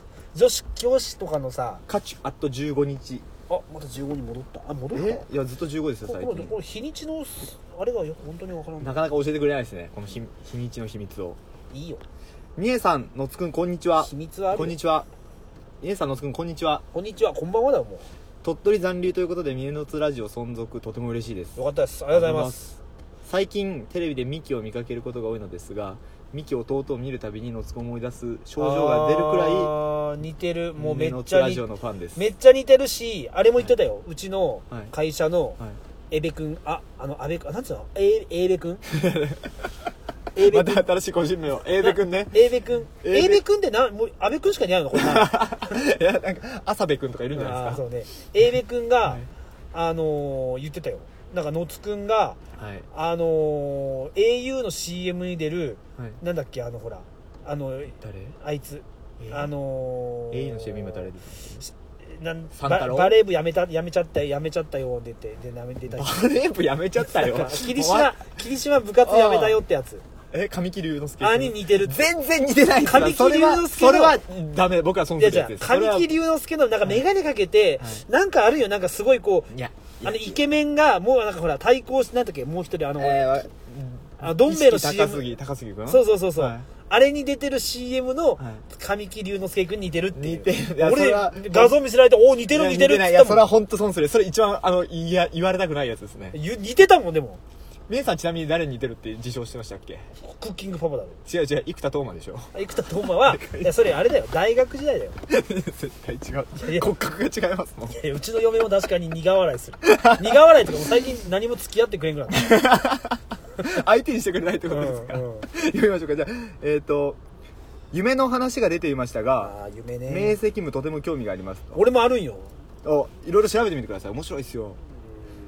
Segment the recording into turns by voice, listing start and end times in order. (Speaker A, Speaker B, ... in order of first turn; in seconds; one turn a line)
Speaker A: 0.3-1.8
Speaker B: 1.9-3.2
Speaker A: 3.5-5.2
Speaker B: 4.9-6.6
Speaker A: 6.0-9.0
Speaker B: 8.8-11.4
Speaker A: 11.7-12.0
Speaker B: 12.6-15.1
Speaker A: 14.0-14.8
Speaker B: 15.8-16.8
Speaker A: 16.9-18.1
Speaker B: 18.4-21.6
Speaker A: 21.6-22.6
Speaker B: 22.1-29.7
Speaker A: 28.6-31.6
Speaker B: 30.8-32.2
Speaker A: 32.1-35.6
Speaker A: 36.1-38.8
Speaker B: 38.9-39.7
Speaker A: 40.4-40.9
Speaker B: 40.4-43.4
Speaker A: 41.8-45.8
Speaker B: 44.9-47.8
Speaker A: 47.3-49.2
Speaker A: 49.7-52.4
Speaker B: 52.5-52.9
Speaker A: 52.9-61.1
Speaker B: 58.0-58.4
Speaker B: 59.2-59.5
Speaker B: 60.3-61.6
Speaker A: 61.6-66.3
Speaker B: 62.5-63.2
Speaker B: 65.9-68.1
Speaker A: 67.0-70.0
Speaker B: 69.0-69.6
Speaker B: 70.3-76.1
Speaker A: 71.2-72.1
Speaker A: 72.8-74.2
Speaker A: 75.2-79.5
Speaker B: 79.5-80.4
Speaker A: 80.0-83.4
Speaker B: 83.0-86.7
Speaker A: 84.2-85.2
Speaker A: 85.9-93.5
Speaker B: 90.2-91.8
Speaker B: 92.5-96.4
Speaker A: 96.3-97.4
Speaker B: 97.9-100.1
Speaker A: 100.2-101.2
Speaker B: 101.2-103.8
Speaker A: 102.5-105.2
Speaker B: 105.3-108.0
Speaker A: 106.6-106.9
Speaker A: 107.9-112.5
Speaker B: 109.8-110.5
Speaker B: 112.3-117.2
Speaker A: 114.7-115.5
Speaker B: 117.9-119.5
Speaker A: 119.4-120.4
Speaker B: 120.1-121.8
Speaker A: 121.8-122.5
Speaker B: 122.8-124.8